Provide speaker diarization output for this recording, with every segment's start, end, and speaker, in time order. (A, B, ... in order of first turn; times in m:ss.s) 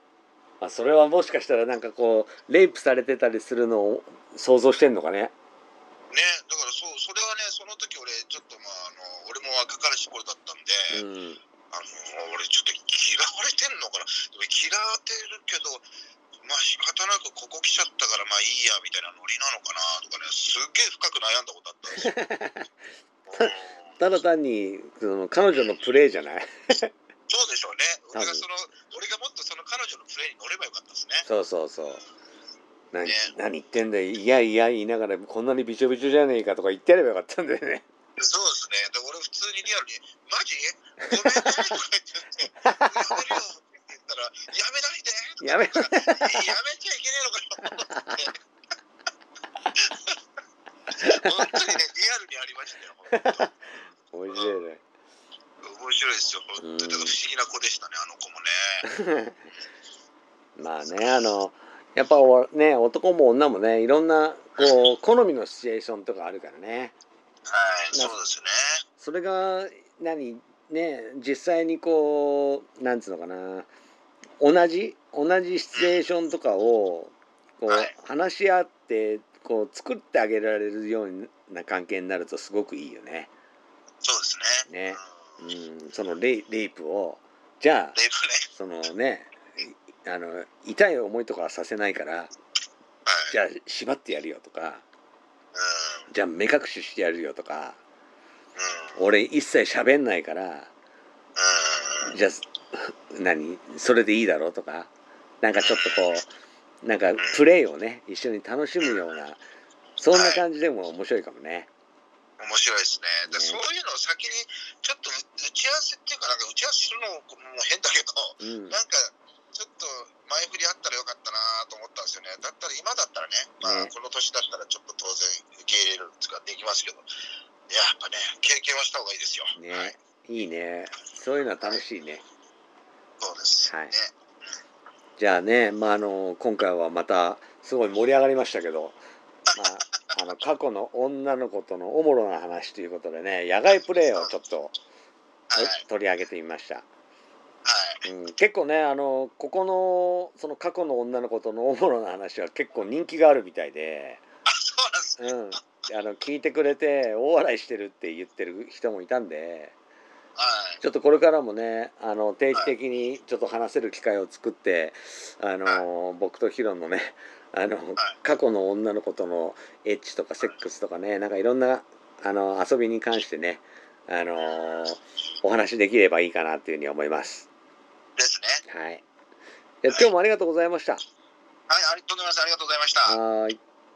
0:00.6-0:05.3 A
0:06.1-0:11.0 B
0:10.9-0:11.4 A
0:11.7-0:15.8 B
0:16.4-0:22.1 B
0:22.0-0:22.7 A
0:23.2-0:23.9 B
0:23.4-0:26.9 A
0:25.5-0:25.8 B
0:27.3-0:31.3 B
0:28.1-0:28.4 A
0:31.2-0:32.0 A
0:32.9-0:37.8 A
0:33.0-0:33.3 B
0:38.2-0:48.3 B
0:41.1-0:41.6 A
0:42.6-0:43.4 A
0:45.4-0:46.5 A
0:47.6-0:48.3 A
0:49.8-0:50.2 B
0:51.0-0:53.5 B
0:51.0-0:51.3 A
0:53.1-0:53.5 A
0:54.1-0:54.8 A
0:54.3-0:54.6 B
0:55.6-0:58.8 B
0:56.6-0:57.2 A
0:58.8-0:59.4 A
1:00.6-1:06.9 A
1:07.5-1:08.8 B
1:09.0-1:13.7 A
1:14.4-1:23.3 A
1:15.7-1:16.0 B
1:24.0-1:25.4 B
1:24.7-1:28.0 A
1:27.9-1:28.4 B
1:28.5-1:32.3 A
1:33.0-1:33.4 B
1:33.3-1:34.8 A
1:35.5-1:36.1 B
1:36.1-1:37.8 A
1:38.6-1:39.0 B
1:39.0-1:40.7 A
1:41.4-1:42.1 B
1:42.0-1:44.9 A
1:45.4-1:46.3 A
1:45.6-1:46.1 B
1:46.8-1:49.4 A
1:47.2-1:47.4 B
1:50.0-1:51.7 A
1:50.1-1:50.4 B
1:52.4-2:07.0 B
1:53.3-1:53.6 A
1:58.4-1:58.8 A
2:03.6-2:03.9 A
2:07.7-2:09.9 B
2:09.5-2:12.2 A
2:13.2-2:14.1 B
2:13.6-2:13.9 A
2:15.2-2:19.0 A
2:19.5-2:24.7 A
2:25.5-2:25.8 B
2:25.6-2:26.8 A
2:27.6-2:28.0 B
2:28.0-2:34.2 A
2:34.5-2:35.5 B
2:35.2-2:39.7 A
2:40.4-2:40.8 B
2:40.8-2:57.5 A
2:54.4-2:54.9 B
2:58.2-2:58.6 B
2:58.7-2:59.0 A
2:59.8-3:01.0 A
3:01.7-3:03.2 B
3:03.0-3:03.6 A